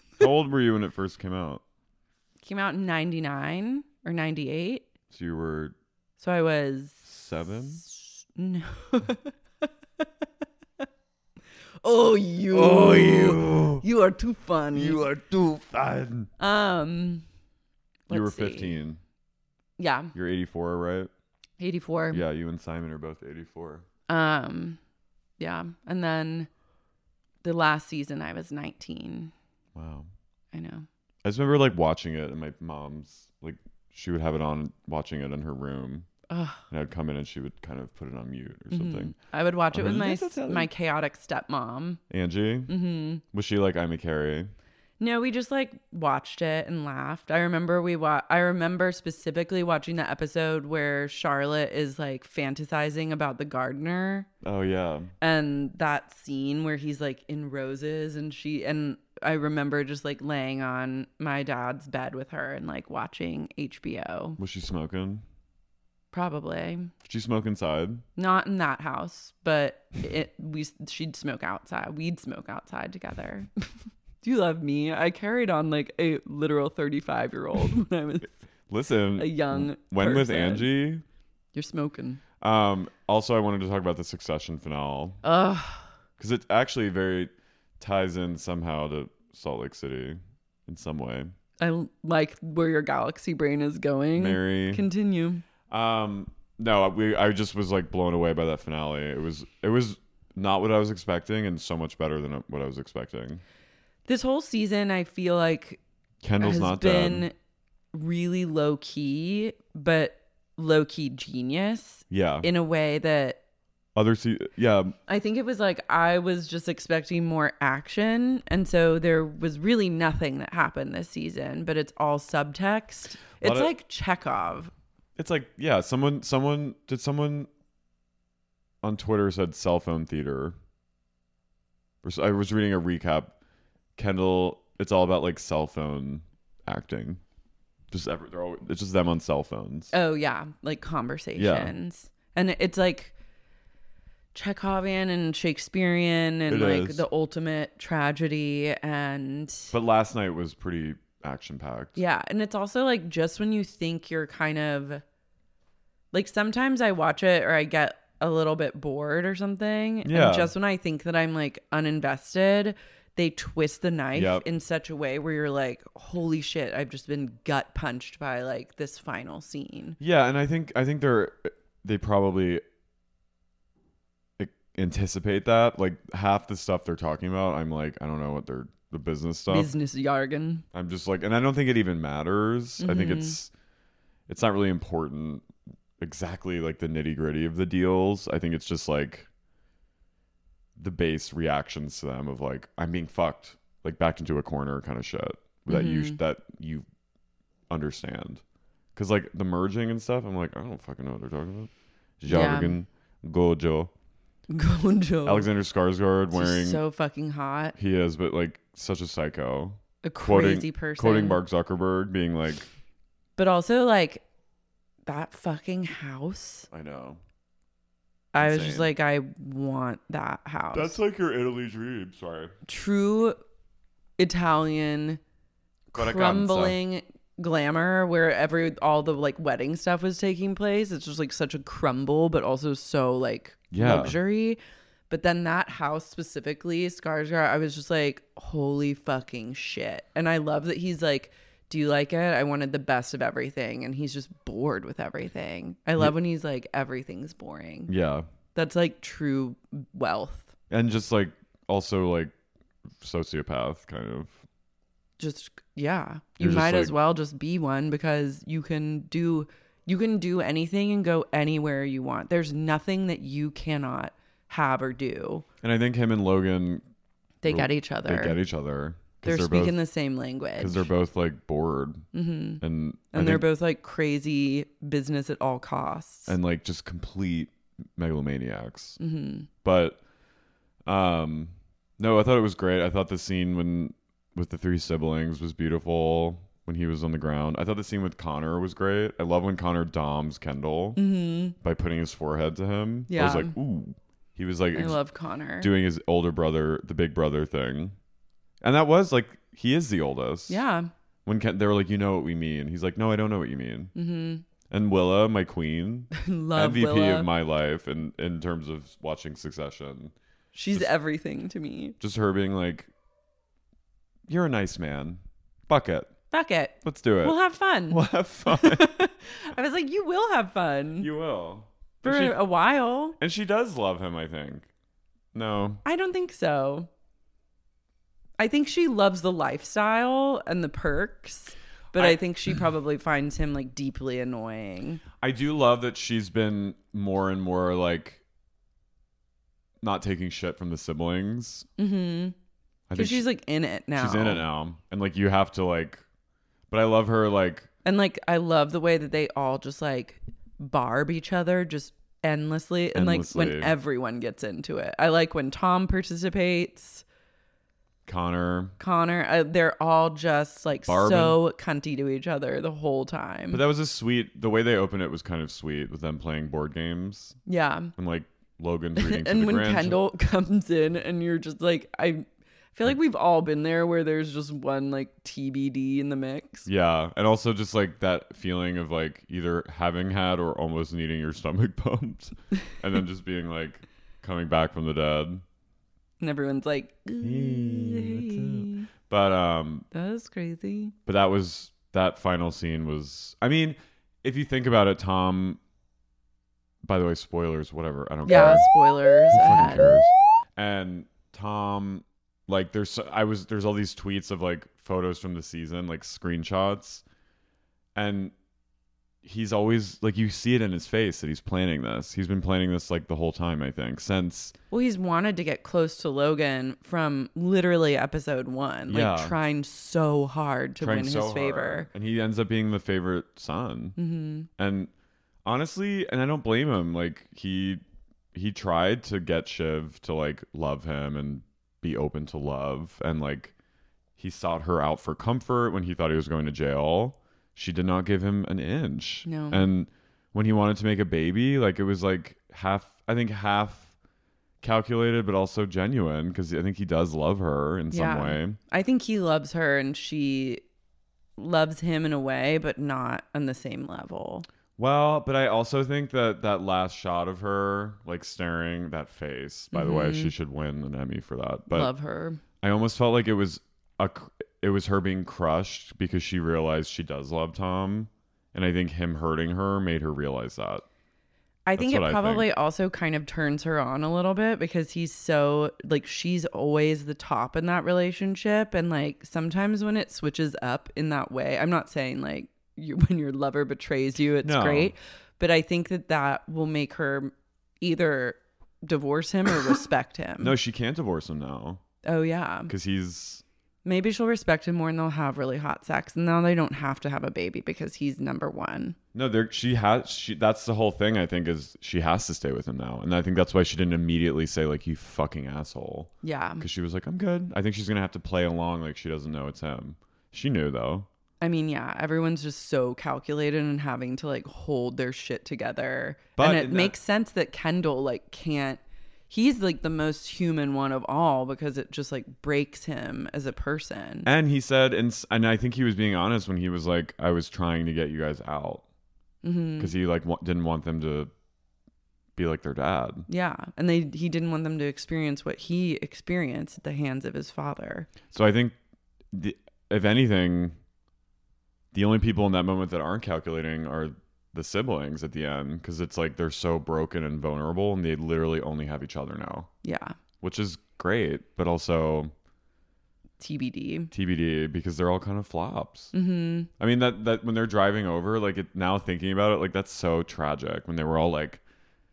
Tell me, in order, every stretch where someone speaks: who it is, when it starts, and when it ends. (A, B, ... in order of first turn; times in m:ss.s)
0:00.2-0:01.6 A
0:02.4-0:04.9 B
0:05.1-0:05.8 A
0:06.2-0:07.0 B
0:07.0-0:07.8 A
0:07.8-0:09.3 B
0:11.8-0:15.0 B
0:12.5-0:13.8 A
0:14.7-0:16.3 A
0:16.4-0:17.2 B
0:18.1-0:18.7 B
0:18.1-0:19.0 A
0:19.8-0:20.1 B
0:20.1-0:21.1 A
0:21.6-0:22.2 B
0:22.1-0:23.8 A
0:24.1-0:24.8 B
0:25.4-0:26.5 B
0:27.4-0:29.3 B
0:29.8-0:30.1 A
0:30.5-0:30.9 B
0:31.2-0:36.1 A
0:36.3-0:36.6 B
0:36.7-0:39.2 A
0:38.7-0:42.0 B
0:39.7-0:40.7 A
0:42.1-0:42.7 A
0:42.7-0:43.2 B
0:43.2-0:44.5 A
0:45.0-0:54.3 B
0:54.4-0:55.1 A
0:55.2-1:04.4 B
1:04.4-1:05.2 A
1:06.1-1:06.9 B
1:07.0-1:08.0 A
1:08.2-1:13.5 B
1:14.2-1:18.3 B
1:18.7-1:21.0 A
1:19.2-1:20.7 B
1:21.5-1:22.2 B
1:22.4-1:25.2 A
1:25.2-1:25.9 B
1:26.2-1:31.3 A
1:31.6-1:35.4 B
1:34.2-1:34.8 A
1:35.7-1:43.4 A
1:44.1-1:45.8 B
1:46.2-1:47.3 A
1:46.4-1:47.3 B
1:47.9-1:53.4 B
1:52.1-1:52.5 A
1:54.0-1:55.0 A
1:55.1-2:04.7 B
2:03.4-2:03.7 A
2:05.2-2:07.5 A
2:08.8-2:10.6 A
2:12.0-2:13.3 A
2:14.0-2:17.2 A
2:17.9-2:19.9 A
2:19.9-2:23.1 B
2:21.4-2:21.7 A
2:24.3-2:29.7 B
2:26.5-2:27.1 A
2:29.7-2:32.0 A
2:32.0-2:35.0 B
2:36.1-2:50.0 B
2:40.0-2:40.5 A
2:44.1-2:44.4 A
2:50.0-2:52.6 A
2:54.4-2:59.7 A
2:59.5-3:00.6 B
3:00.7-3:03.5 A
3:02.8-3:03.4 B
3:04.3-3:05.5 A
3:06.0-3:09.3 A
3:10.8-3:16.9 A
3:15.7-3:16.2 B
3:17.7-3:18.4 A
3:19.0-3:23.9 A
3:22.3-3:22.8 B
3:24.5-3:25.5 B
3:25.2-3:26.8 A
3:26.3-3:27.8 B
3:27.8-3:32.7 A
3:30.0-3:31.4 B
3:33.4-3:34.2 B
3:35.1-3:36.7 B
3:36.7-3:37.2 A
3:38.3-3:41.0 B
3:38.4-3:38.9 A
3:40.7-3:42.5 A
3:42.7-3:43.4 B
3:44.2-3:45.2 B
3:45.9-3:46.8 A
3:46.0-3:54.6 B
3:53.7-3:54.2 A
3:55.1-4:07.9 B
4:07.9-4:08.3 A
4:08.6-4:10.5 B
4:10.7-4:12.3 A
4:13.0-4:14.4 A
4:15.2-4:25.4 B
4:16.4-4:17.0 A
4:25.6-4:26.9 A
4:27.4-4:28.4 B
4:27.4-4:29.8 A
4:29.2-4:30.9 B
4:30.6-4:32.1 A
4:32.1-4:36.4 B
4:32.6-4:33.5 A
4:36.3-4:39.0 A
4:39.0-4:39.5 B
4:39.6-4:40.0 A
4:40.9-4:51.0 A
4:51.0-4:51.6 B
4:51.6-4:55.0 A
4:53.1-4:53.6 B
4:54.7-4:55.7 B
4:55.6-4:58.0 A
4:58.6-5:00.6 A
5:00.5-5:00.9 B
5:01.3-5:03.9 A
5:04.0-5:04.4 B
5:04.7-5:10.1 A
5:06.2-5:07.3 B
5:10.5-5:12.0 B
5:12.0-5:12.9 A
5:14.3-5:16.1 A
5:16.3-5:21.1 B
5:16.8-5:17.4 A
5:17.9-5:19.0 A
5:21.0-5:22.4 A
5:22.0-5:23.2 B
5:23.2-5:24.7 A
5:25.3-5:25.8 A
5:25.8-5:26.9 B
5:28.4-5:35.0 B
5:31.9-5:32.2 A
5:35.2-5:38.2 A
5:39.8-5:41.7 A
5:41.8-5:42.4 B
5:42.9-5:43.2 A
5:43.0-5:44.4 B
5:44.0-5:46.0 A
5:46.7-5:47.7 A
5:47.8-5:57.0 B
5:52.9-5:53.7 A
5:58.1-5:58.8 A
5:58.8-6:03.6 B
6:00.9-6:01.4 A
6:03.5-6:07.4 A
6:07.5-6:07.9 B
6:08.0-6:10.0 A
6:09.0-6:16.7 B
6:16.7-6:25.4 A
6:26.2-6:28.9 B
6:27.2-6:29.9 A
6:29.9-6:31.0 B
6:31.1-6:35.6 A
6:36.8-6:38.7 A
6:38.3-6:40.0 B
6:39.3-6:47.0 A
6:48.0-6:48.3 A
6:49.2-6:54.6 A
6:54.7-7:01.9 B
6:58.9-6:59.4 A
7:00.8-7:04.0 A
7:04.0-7:04.5 B
7:04.6-7:04.9 A
7:05.4-7:07.8 A
7:08.3-7:13.5 A
7:14.2-7:23.9 A
7:19.2-7:19.6 B
7:24.6-7:28.6 A
7:27.9-7:30.6 B
7:31.4-7:34.5 B
7:34.8-7:41.9 A
7:39.7-7:40.3 B
7:41.7-7:42.4 B
7:42.6-7:50.8 A
7:51.7-8:10.6 B
7:51.8-7:52.5 A
8:04.4-8:04.9 A
8:10.4-8:11.8 A
8:12.0-8:12.7 B
8:12.7-8:13.4 A
8:13.8-8:19.0 B
8:19.1-8:31.1 A
8:26.2-8:26.7 B
8:31.4-8:44.3 B
8:36.4-8:37.0 A
8:44.2-8:48.8 A
8:49.4-8:49.9 B
8:49.8-8:51.3 A
8:52.4-8:53.3 A
8:53.3-8:58.1 B
8:58.3-8:58.8 A
8:59.3-9:00.8 A
9:01.9-9:09.7 A
9:09.8-9:10.2 B
9:10.4-9:12.3 A
9:13.4-9:14.1 B
9:14.1-9:16.1 A
9:16.1-9:16.7 B
9:16.8-9:21.6 A